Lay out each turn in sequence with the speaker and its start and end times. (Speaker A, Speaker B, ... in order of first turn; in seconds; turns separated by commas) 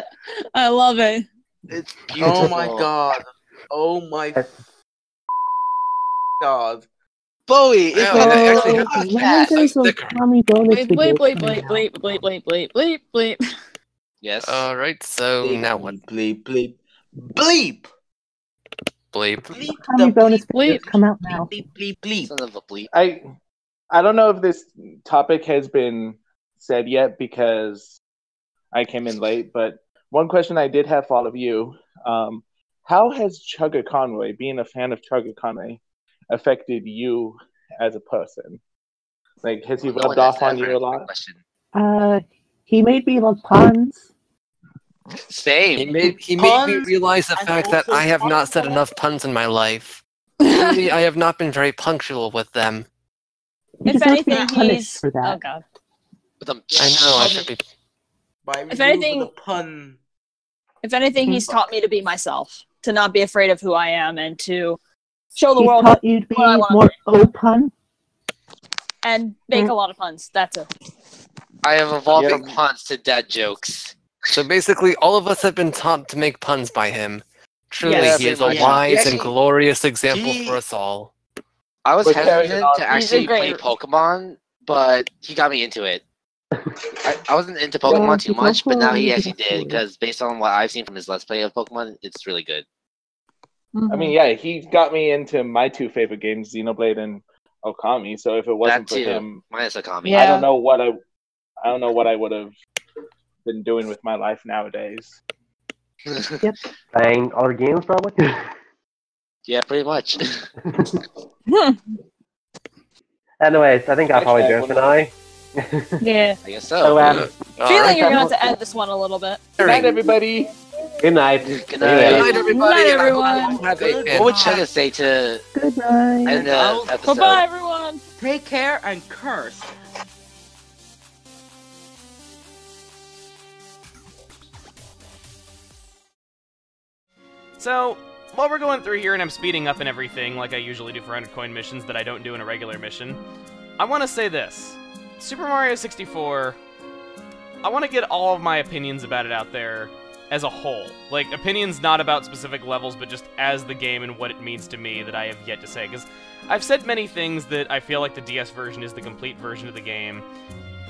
Speaker A: 0.5-1.2, Speaker B: 1.7-2.9, Speaker C: 2.1-4.4, Speaker C: 6.4-6.8, Speaker B: 7.5-9.6, Speaker D: 7.9-10.2, Speaker E: 8.1-11.9, Speaker A: 10.7-13.4, Speaker B: 14.2-14.6, Speaker D: 14.4-16.0, Speaker C: 15.4-17.9, Speaker D: 19.1-19.5, Speaker C: 19.5-22.3, Speaker E: 19.8-21.5, Speaker A: 20.5-20.8, Speaker B: 22.2-22.9, Speaker F: 22.9-23.2, Speaker F: 23.9-27.9, Speaker F: 28.7-38.6, Speaker F: 39.4-41.1, Speaker B: 39.8-41.4, Speaker E: 41.7-44.0, Speaker B: 45.3-45.9, Speaker D: 45.8-50.0, Speaker C: 46.4-48.9, Speaker A: 50.4-50.9, Speaker D: 50.5-52.9, Speaker E: 53.8-55.4, Speaker A: 53.8-55.6, Speaker B: 56.4-57.4, Speaker D: 56.8-57.7, Speaker C: 57.1-57.5, Speaker C: 58.4-60.0, Speaker A: 58.7-59.3, Speaker A: 60.8-64.8, Speaker A: 65.3-67.0, Speaker E: 65.5-67.7, Speaker A: 69.0-70.7, Speaker B: 71.6-73.9, Speaker F: 72.1-72.5, Speaker D: 74.3-81.1, Speaker A: 77.8-78.3, Speaker B: 77.8-79.3, Speaker C: 78.4-79.2, Speaker B: 80.1-80.6, Speaker B: 81.8-86.0, Speaker F: 82.0-83.3, Speaker A: 82.9-83.6, Speaker B: 87.0-92.6, Speaker E: 87.8-89.8, Speaker A: 93.7-94.1, Speaker F: 93.9-99.4, Speaker B: 98.6-100.3, Speaker A: 100.0-100.4, Speaker F: 100.1-101.0, Speaker F: 101.6-102.5, Speaker F: 103.5-105.2, Speaker G: 106.9-108.5, Speaker B: 109.5-110.5, Speaker A: 111.5-111.8, Speaker G: 113.4-116.0, Speaker F: 114.1-115.0, Speaker A: 116.0-116.4, Speaker B: 116.4-117.0, Speaker G: 116.8-117.3, Speaker D: 117.0-118.3, Speaker A: 117.6-120.2, Speaker G: 117.9-118.3, Speaker F: 119.6-120.5, Speaker B: 119.6-119.9, Speaker G: 121.0-122.3, Speaker B: 121.5-122.5, Speaker D: 122.0-124.5, Speaker A: 122.2-123.7, Speaker C: 123.3-124.7, Speaker B: 124.1-125.4, Speaker E: 125.5-126.5, Speaker B: 126.2-127.4, Speaker C: 126.3-126.9, Speaker A: 127.0-128.0, Speaker C: 128.2-129.7, Speaker H: 137.6-143.2, Speaker H: 143.8-146.6, Speaker H: 147.6-160.2